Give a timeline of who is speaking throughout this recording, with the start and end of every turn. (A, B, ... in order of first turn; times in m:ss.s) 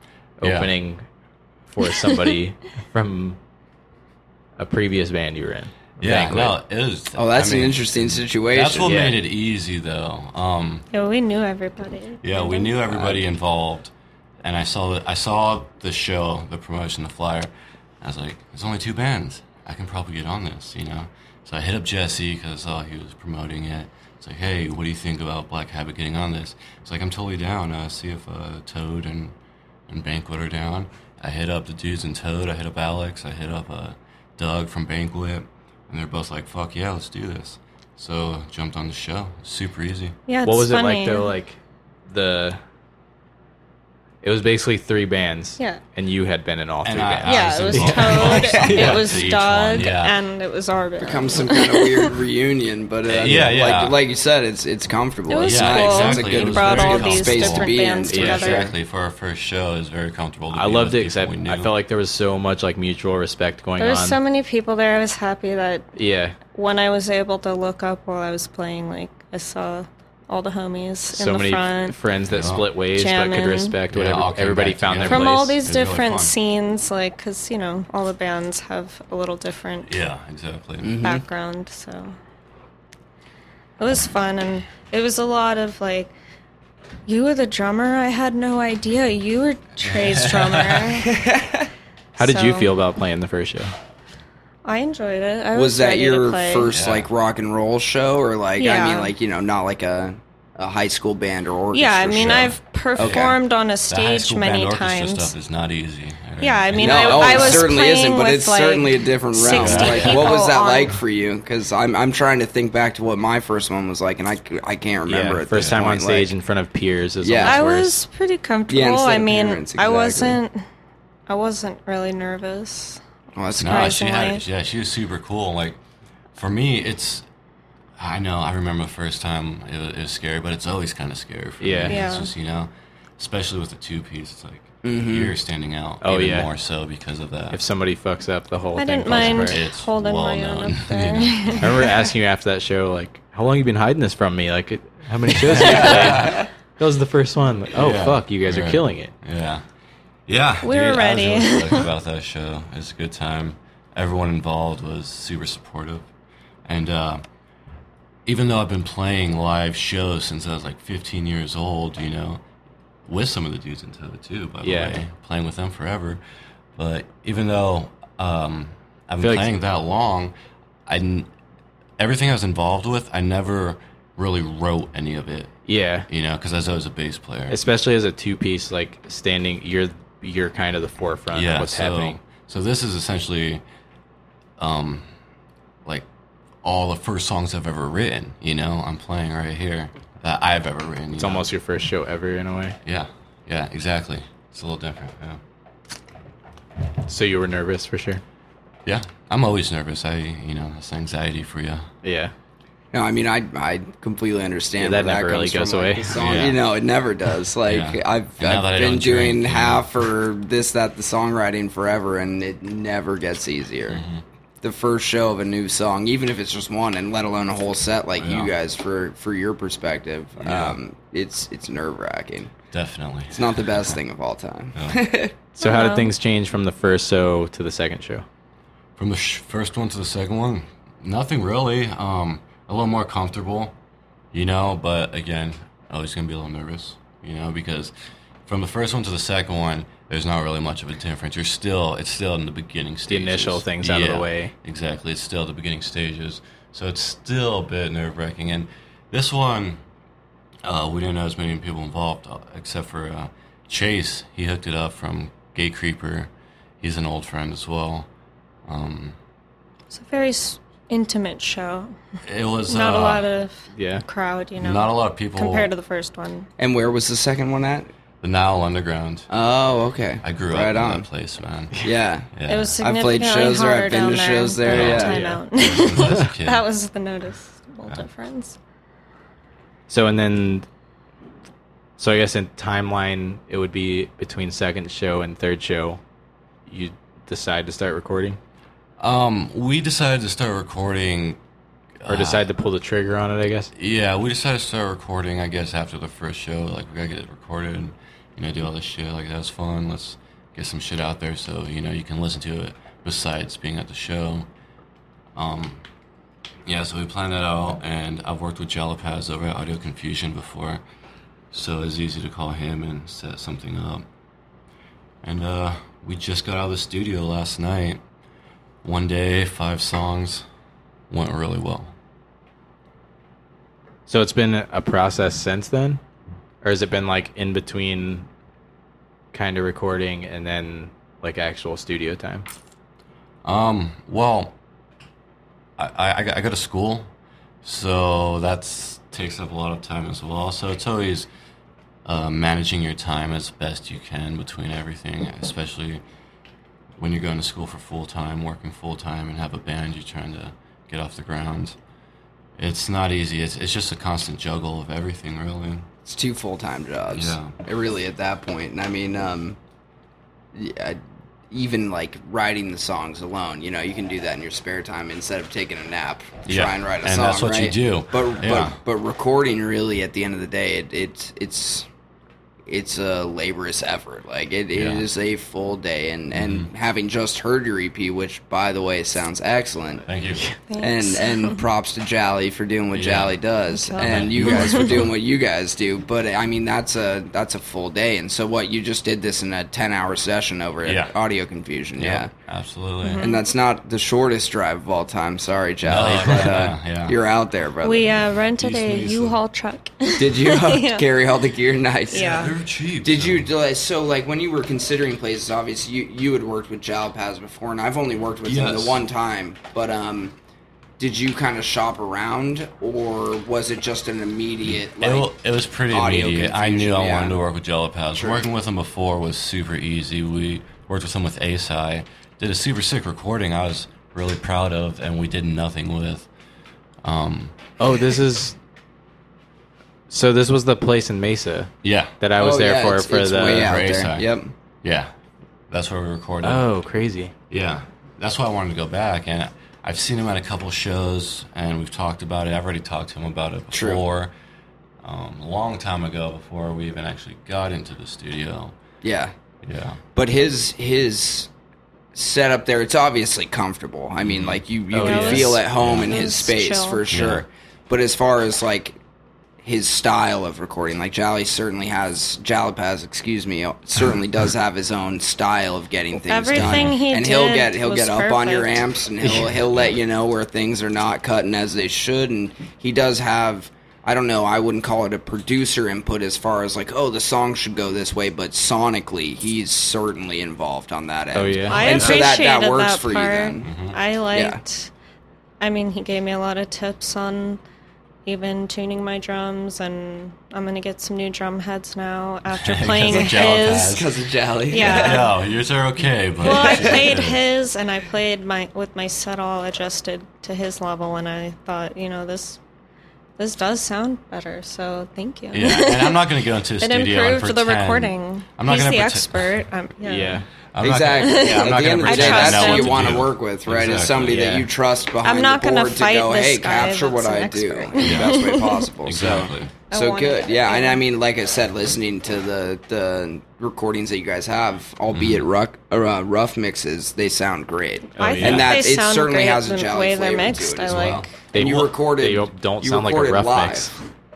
0:00.4-0:01.0 A
0:00.4-0:00.7 B
0:01.7-0:03.4 A
0:04.6-0:06.6 A
0:06.0-0:10.8 B
0:07.1-0:09.0 C
0:08.8-0:09.2 A
0:10.9-0:13.0 D
0:12.2-0:13.9 B
0:14.4-0:17.5 B
0:18.0-0:29.3 B
0:29.9-0:40.1 B
0:40.3-0:41.3 D
0:40.4-0:42.6 A
0:44.2-0:49.1 A
0:46.8-0:50.1 B
0:47.2-0:52.1 D
0:51.0-0:58.7 C
0:53.1-0:54.0 B
0:53.2-0:53.5 A
0:55.3-0:58.7 D
0:55.4-1:01.7 B
0:58.1-0:58.6 A
1:00.5-1:04.2 A
1:03.8-1:05.9 D
1:06.0-1:06.4 A
1:06.5-1:12.0 D
1:11.1-1:15.6 A
1:12.3-1:12.7 B
1:12.9-1:13.8 D
1:13.9-1:16.3 B
1:15.1-1:19.9 D
1:19.8-1:21.0 B
1:20.8-1:21.2 C
1:21.0-1:22.2 D
1:23.8-1:26.1 D
1:27.0-1:31.1 D
1:29.8-1:31.0 B
1:31.2-1:31.5 C
1:32.2-1:33.7 A
1:32.2-1:32.7 D
1:34.6-1:36.7 D
1:35.5-1:43.4 C
1:36.7-1:37.1 B
1:38.6-1:39.1 D
1:41.7-1:45.3 D
1:42.2-1:43.3 B
1:43.9-1:47.7 B
1:46.4-1:51.0 D
1:46.8-1:56.3 C
1:49.5-1:50.4 B
1:55.1-1:58.0 A
1:55.5-1:55.8 B
1:57.2-1:57.6 C
1:57.4-2:00.6 D
1:58.7-2:00.4 C
2:01.3-2:03.0 D
2:03.4-2:03.9 C
2:03.6-2:04.4 D
2:03.6-2:05.8 B
2:06.3-2:07.2 B
2:08.0-2:17.6 B
2:11.6-2:12.0 A
2:11.9-2:12.3 D
2:14.8-2:15.3 C
2:16.0-2:16.5 A
2:17.5-2:19.6 A
2:18.8-2:22.0 D
2:19.1-2:21.8 B
2:21.6-2:29.1 A
2:25.4-2:26.5 B
2:27.7-2:29.6 B
2:30.3-2:36.1 B
2:30.6-2:31.9 D
2:36.6-2:37.2 B
2:38.2-2:42.4 B
2:43.0-2:46.2 B
2:44.6-2:44.9 A
2:46.8-2:50.3 B
2:49.2-2:49.5 A
2:50.8-2:51.3 B
2:52.0-2:55.5 B
2:55.7-2:56.1 A
2:56.1-2:57.6 B
2:57.5-3:02.2 A
3:01.3-3:03.6 B
3:04.6-3:05.1 B
3:06.6-3:11.5 B
3:11.2-3:12.8 A
3:12.8-3:15.4 B
3:17.0-3:18.2 A
3:18.8-3:21.9 B
3:22.0-3:22.3 A
3:22.9-3:34.0 C
3:24.8-3:26.1 A
3:26.1-3:26.6 B
3:27.6-3:29.9 B
3:33.9-3:34.2 B
3:34.6-3:42.5 C
3:38.2-3:38.5 B
3:40.4-3:40.8 B
3:42.7-3:44.0 B
3:43.3-3:45.3 C
3:44.7-3:45.0 B
3:45.6-3:48.2 A
3:45.6-3:46.1 D
3:49.0-3:53.7 B
3:54.3-3:57.9 B
3:58.5-4:09.8 B
4:03.1-4:04.5 A
4:10.6-4:16.3 B
4:16.8-4:18.1 B
4:18.6-4:19.2 B
4:19.9-4:21.9 D
4:22.2-4:23.3 B
4:22.7-4:26.5 D
4:23.7-4:24.0 A
4:24.6-4:25.7 B
4:26.6-4:27.9 C
4:28.2-4:29.3 B
4:29.3-4:31.0 C
4:30.2-4:31.8 B
4:31.8-4:35.2 C
4:32.3-4:32.8 B
4:32.5-4:38.6 D
4:34.7-4:36.6 B
4:35.1-4:35.4 A
4:39.9-4:40.6 A
4:42.0-4:46.0 A
4:46.7-4:48.4 A
4:49.0-4:51.4 B
4:52.0-4:52.4 B
4:52.1-4:53.7 A
4:53.7-5:04.5 B
5:05.3-5:05.8 B
5:06.6-5:10.8 B
5:11.5-5:14.0 B
5:15.2-5:18.0 B
5:18.8-5:20.4 B
5:21.1-5:21.9 B
5:24.1-5:26.0 A
5:26.6-5:28.3 A
5:29.3-5:32.4 A
5:33.4-5:34.5 B
5:35.8-5:37.1 B
5:37.6-5:41.3 B
5:42.0-5:46.0 B
5:47.0-5:51.8 B
5:52.6-5:55.9 B
5:56.0-5:59.6 C
5:57.1-5:57.5 B
6:00.5-6:11.9 C
6:06.5-6:08.8 B
6:12.7-6:20.0 C
6:14.7-6:15.0 B
6:16.3-6:16.7 B
6:20.0-6:20.4 B
6:20.7-6:21.6 D
6:20.8-6:32.3 C
6:22.9-6:23.4 B
6:23.7-6:25.1 D
6:24.0-6:25.1 B
6:30.8-6:31.1 B
6:32.0-6:33.3 B
6:33.0-6:33.4 D
6:33.2-6:38.1 C
6:35.8-6:37.2 B
6:37.8-6:41.1 D
6:38.6-6:39.4 B
6:40.2-6:42.5 C
6:42.1-6:42.5 D
6:42.1-6:43.5 B
6:43.0-6:50.3 C
6:48.4-6:49.1 B
6:51.0-6:55.3 C
6:54.6-7:06.3 B
6:55.9-6:57.4 C
6:58.2-6:58.4 C
7:07.0-7:07.5 B
7:07.8-7:08.6 A
7:10.1-7:13.8 A
7:11.8-7:12.1 B
7:12.4-7:14.5 C
7:13.5-7:14.3 B
7:14.8-7:15.1 B
7:15.7-7:16.6 B
7:16.4-7:17.3 A
7:17.5-7:24.3 B
7:23.7-7:24.0 C
7:25.0-7:28.8 B
7:29.0-7:29.3 C
7:29.6-7:30.0 B
7:30.1-7:31.5 C
7:32.1-7:39.0 C
7:34.2-7:34.6 B
7:34.9-7:35.6 A
7:35.0-7:37.0 D
7:35.8-7:36.1 B
7:37.1-7:37.4 B
7:39.6-8:03.7 C
7:46.2-7:48.8 D
7:46.5-7:47.0 B
7:49.2-7:50.0 B
8:01.3-8:01.8 A
8:01.7-8:04.9 D
8:01.8-8:02.3 B
8:03.6-8:04.0 B
8:04.3-8:04.6 C
8:05.6-8:07.6 D
8:08.2-8:14.0 D
8:12.5-8:14.2 B
8:13.1-8:15.2 C
8:14.7-8:15.3 D
8:14.8-8:17.4 B
8:16.4-8:22.6 D
8:16.4-8:17.0 C
8:23.4-8:26.3 D
8:25.5-8:29.5 B
8:26.8-8:30.4 D
8:30.0-8:30.5 A
8:30.7-8:34.6 B
8:30.8-8:53.9 C
8:31.2-8:33.2 D
8:34.3-8:34.7 A
8:35.2-8:38.9 D
8:38.0-8:38.4 B
8:39.0-8:39.7 B
8:39.9-8:41.0 D
8:45.1-8:45.4 B
8:48.2-8:48.7 A
8:48.2-8:51.4 D
8:48.4-8:48.7 B
8:50.9-8:51.3 B
8:51.5-8:54.0 A